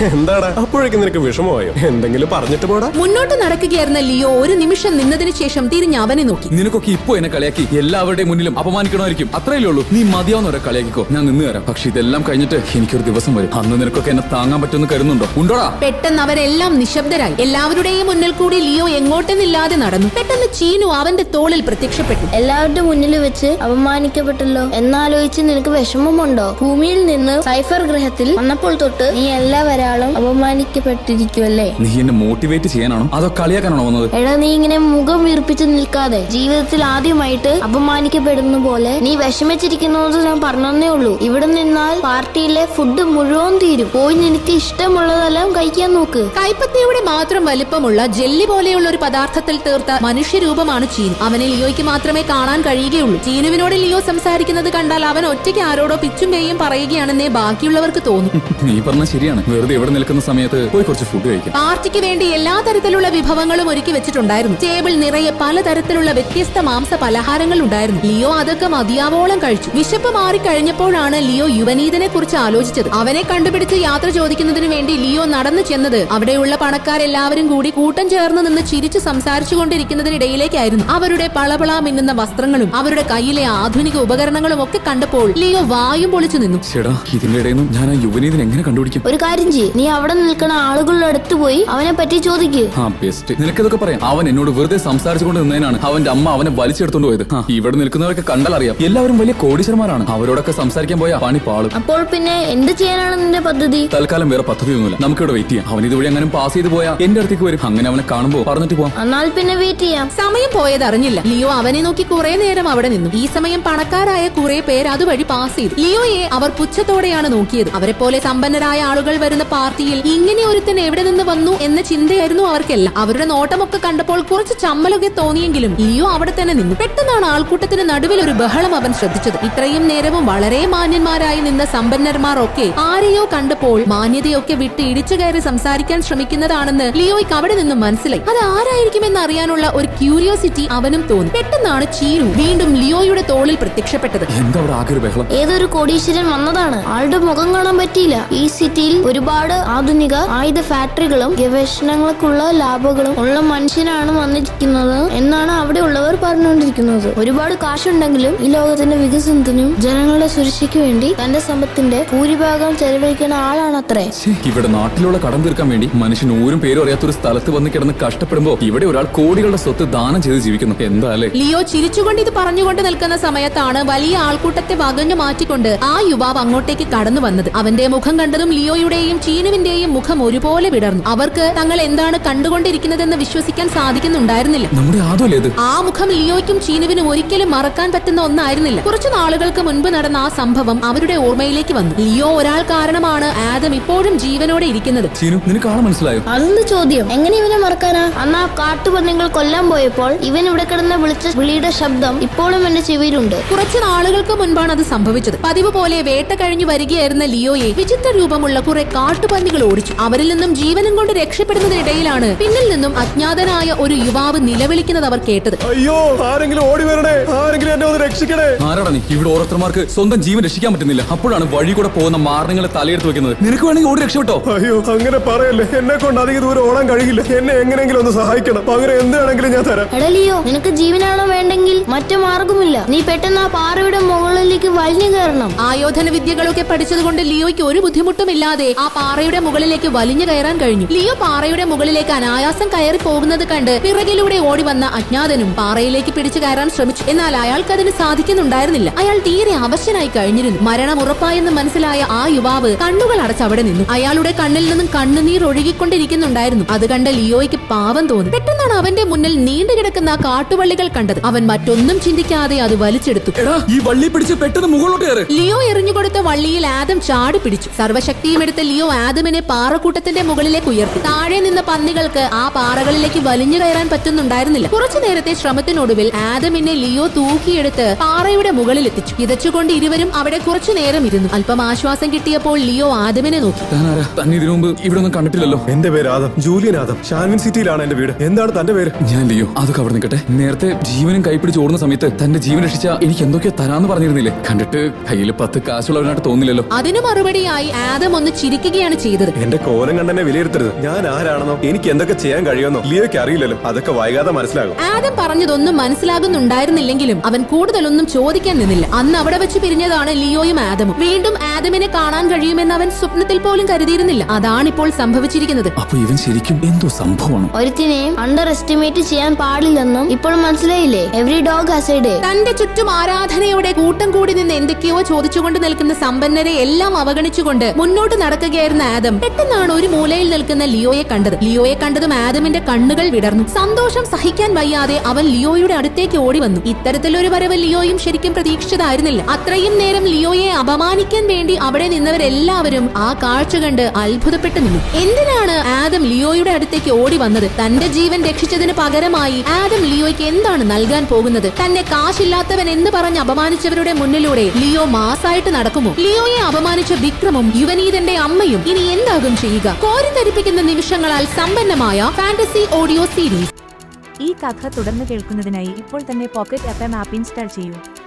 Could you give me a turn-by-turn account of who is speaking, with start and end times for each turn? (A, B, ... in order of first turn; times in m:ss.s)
0:00.2-0:02.9 A
0:03.0-0:06.5 B
0:06.5-0:15.7 C
0:15.8-0:22.3 B
0:22.4-0:31.8 D
0:31.8-0:34.1 C
0:34.2-0:46.3 D
0:46.4-0:58.3 B
0:58.6-1:01.5 C
1:01.6-1:26.6 B
1:26.7-1:29.0 C
1:29.0-1:32.7 D
1:32.8-1:41.7 C
1:41.8-1:43.9 D
1:43.9-1:48.9 C
1:49.0-1:50.1 D
1:50.2-2:24.3 B
2:24.4-2:25.3 C
2:25.4-2:44.1 D
2:44.2-2:51.3 C
2:51.4-3:04.7 B
3:04.8-3:05.5 C
3:05.6-3:15.1 B
3:15.2-3:16.2 C
3:16.3-3:23.4 D
3:23.5-3:35.6 B
3:35.7-3:38.6 A
3:38.6-3:44.4 C
3:44.5-3:49.9 A
3:49.9-3:55.6 D
3:55.6-4:23.3 B
4:23.4-4:25.3 C
4:25.3-4:43.7 B
4:43.7-4:45.6 C
4:45.7-4:49.0 A
4:49.0-4:56.7 C
4:56.7-4:59.3 B
4:59.4-5:04.8 A
5:04.8-5:15.7 B
5:15.8-5:17.5 C
5:17.6-5:22.2 D
5:22.2-6:03.5 B
6:04.2-6:07.8 E